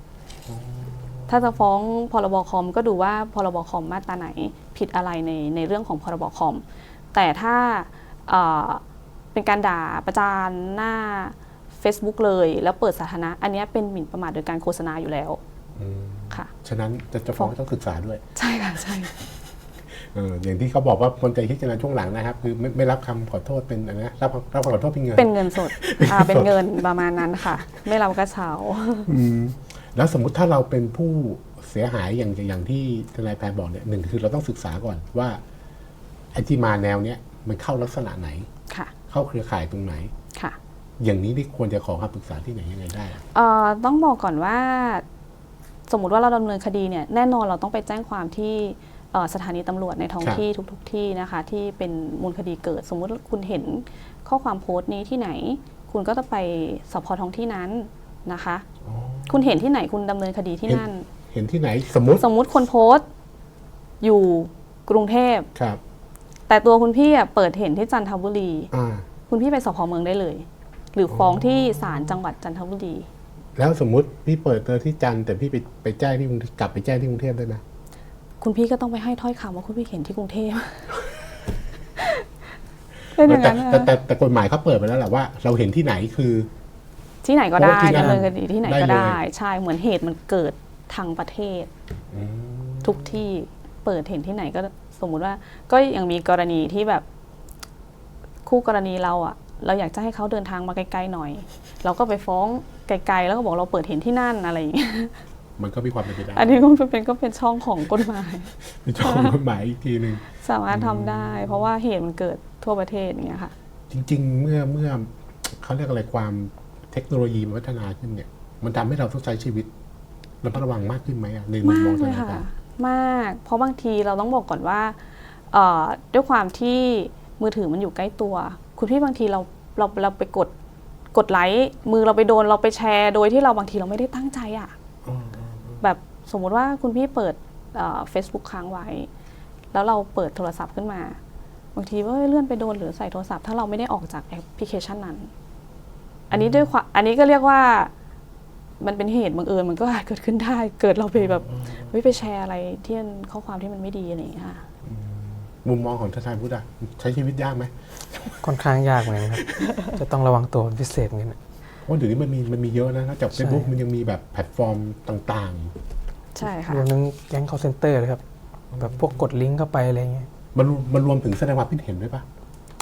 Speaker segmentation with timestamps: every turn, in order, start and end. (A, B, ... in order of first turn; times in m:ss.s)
0:00.5-0:01.6 A
0:01.3-0:08.8 B
0:09.3-0:15.4 B
0:15.8-0:18.2 A
0:18.4-0:19.1 B
0:18.8-0:26.8 A
0:25.2-0:29.1 B
0:27.4-0:27.6 A
0:29.1-0:35.4 A
0:36.3-0:38.5 A
0:39.1-0:40.1 A
0:41.0-0:43.2 A
0:43.3-0:45.0 B
0:45.9-0:58.6 B
0:58.8-0:59.6 A
0:59.3-1:01.1 B
1:00.7-1:02.3 A
1:02.2-1:03.1 B
1:04.0-1:05.5 B
1:05.6-1:05.8 A
1:06.5-1:08.7 B
1:08.7-1:09.1 A
1:09.3-1:13.1 B
1:11.1-1:12.2 A
1:13.6-1:17.6 A
1:18.4-1:21.0 B
1:22.0-1:22.2 B
1:23.2-1:23.9 B
1:23.2-1:26.5 A
1:27.2-1:31.7 B
1:27.6-1:29.2 A
1:27.8-1:28.3 C
1:32.1-1:33.2 A
1:32.8-1:37.0 B
1:38.5-1:45.2 B
1:45.6-1:46.6 A
1:46.3-1:49.4 B
1:48.6-1:51.7 A
1:50.3-1:53.5 B
1:53.9-1:59.7 A
2:00.4-2:02.4 A
2:01.6-2:10.5 B
2:11.1-2:14.8 B
2:15.0-2:15.8 A
2:15.8-2:19.1 B
2:19.7-2:21.2 B
2:21.8-2:25.3 B
2:26.3-2:26.7 A
2:26.3-2:27.9 B
2:28.8-2:34.6 B
2:31.2-2:32.0 A
2:34.8-2:38.5 A
2:38.4-2:41.4 C
2:39.3-2:39.6 A
2:41.9-2:45.8 A
2:43.4-2:43.7 C
2:46.4-2:46.8 B
2:46.4-2:48.2 C
2:48.7-2:49.2 A
2:48.8-2:50.3 C
2:50.6-2:52.3 A